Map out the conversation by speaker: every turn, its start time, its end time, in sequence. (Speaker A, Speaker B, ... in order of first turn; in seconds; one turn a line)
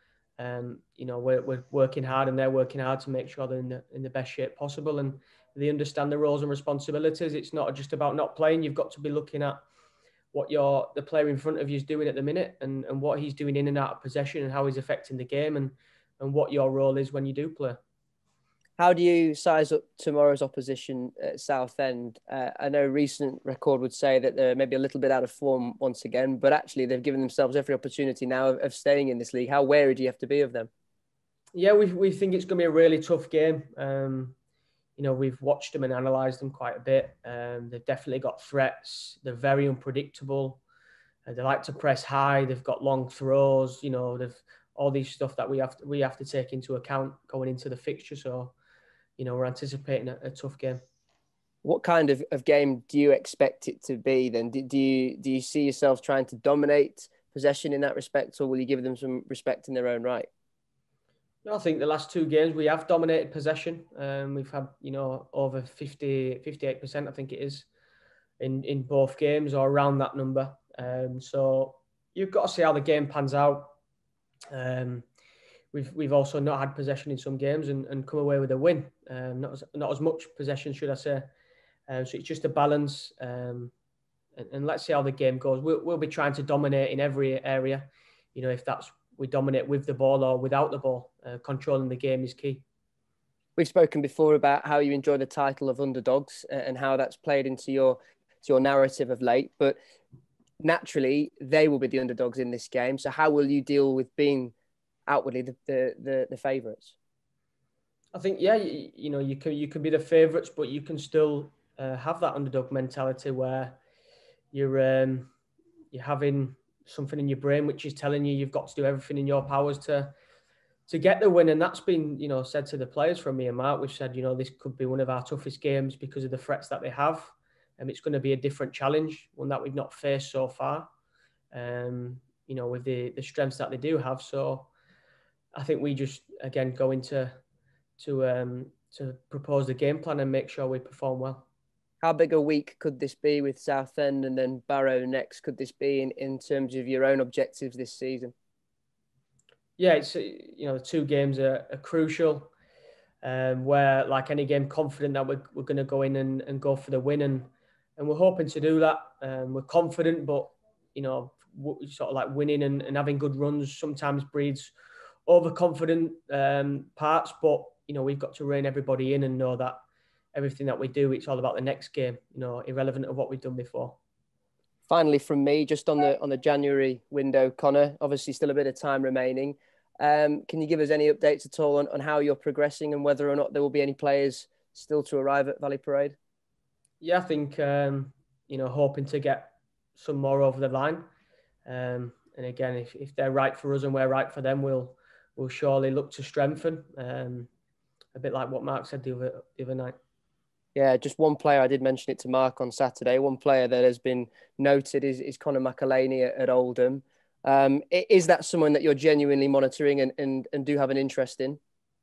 Speaker A: 0.4-9.6
Speaker A: 10.3-17.8
Speaker B: 18.8-30.7
Speaker A: 31.5-34.3
Speaker A: 35.0-40.6
Speaker A: 41.2-48.5
Speaker A: 49.2-50.8
Speaker B: 51.6-60.3
Speaker A: 61.4-67.7
Speaker A: 68.4-73.8
Speaker A: 74.5-75.0
Speaker A: 75.7-81.3
Speaker A: 81.9-83.7
Speaker A: 84.3-92.6
Speaker B: 93.6-99.8
Speaker B: 100.6-104.5
Speaker B: 105.1-106.9
Speaker A: 108.1-113.8
Speaker A: 114.5-115.3
Speaker A: 115.9-120.1
Speaker A: 120.9-130.9
Speaker A: 131.5-134.7
Speaker A: 135.5-137.4
Speaker A: 138.0-141.4
Speaker B: 142.0-148.3
Speaker A: 149.8-152.5
Speaker A: 153.2-164.7
Speaker A: 165.3-169.8
Speaker A: 170.3-174.0
Speaker B: 174.9-186.2
Speaker A: 187.0-191.1
Speaker A: 191.7-197.5
Speaker A: 198.1-199.9
Speaker B: 200.8-211.6